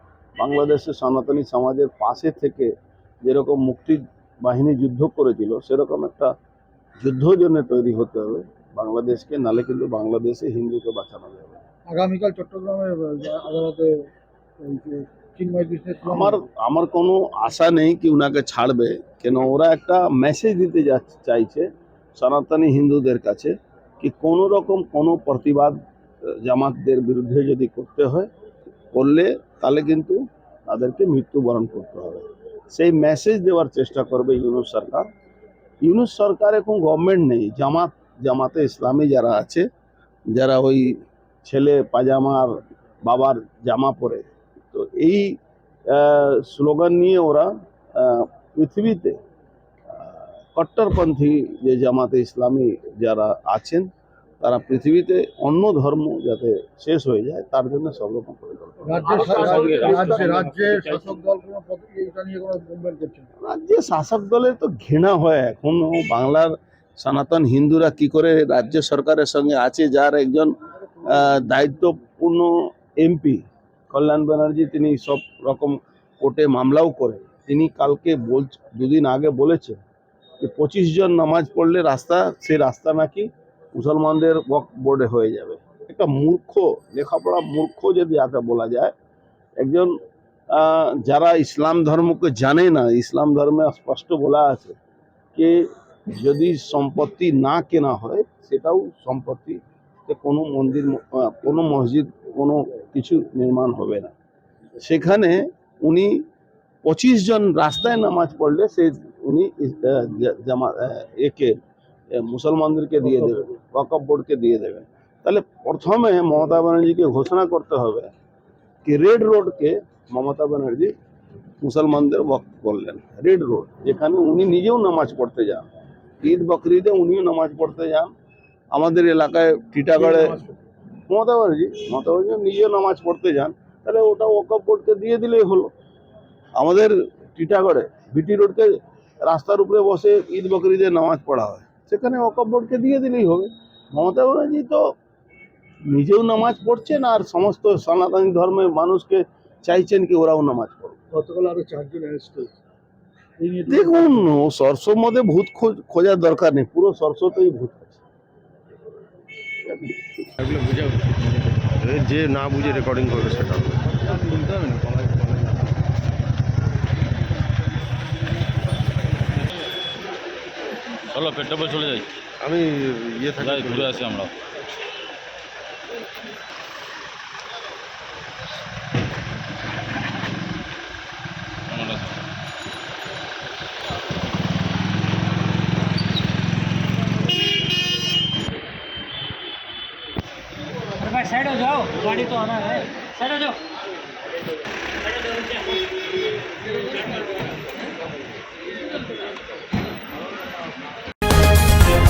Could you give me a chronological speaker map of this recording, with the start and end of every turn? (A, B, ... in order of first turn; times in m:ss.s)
0:00.4-0:02.7 A
0:03.2-0:06.3 A
0:07.0-0:11.6 A
0:11.9-0:16.4 B
0:16.0-0:25.8 A
0:26.4-0:28.3 A
0:28.9-0:35.1 A
0:35.8-0:39.7 A
0:40.3-0:45.4 A
0:45.9-0:49.2 A
0:50.5-0:53.9 A
0:54.4-1:00.3 A
0:58.8-1:03.3 B
0:59.2-1:01.2 C
1:03.4-1:19.8 A
1:20.4-1:28.9 A
1:29.6-1:30.0 A
1:30.5-1:34.8 A
1:35.4-1:44.1 A
1:44.8-1:46.2 A
1:46.8-1:51.6 A
1:52.1-1:58.1 A
1:58.8-2:00.9 A
2:01.6-2:05.7 A
2:06.2-2:08.1 A
2:08.7-2:10.4 A
2:10.0-2:10.6 B
2:11.1-2:15.7 A
2:16.6-2:24.9 A
2:25.9-2:31.0 A
2:31.1-2:32.6 B
2:33.4-2:34.3 B
2:33.7-2:38.0 A
2:40.4-2:41.7 C
2:40.6-2:40.9 D
2:41.8-2:43.9 D
2:43.9-2:45.7 C
2:51.1-2:52.1 C
2:52.4-2:54.0 D
2:53.4-2:54.3 C
3:01.7-3:02.2 C
3:11.0-3:13.6 E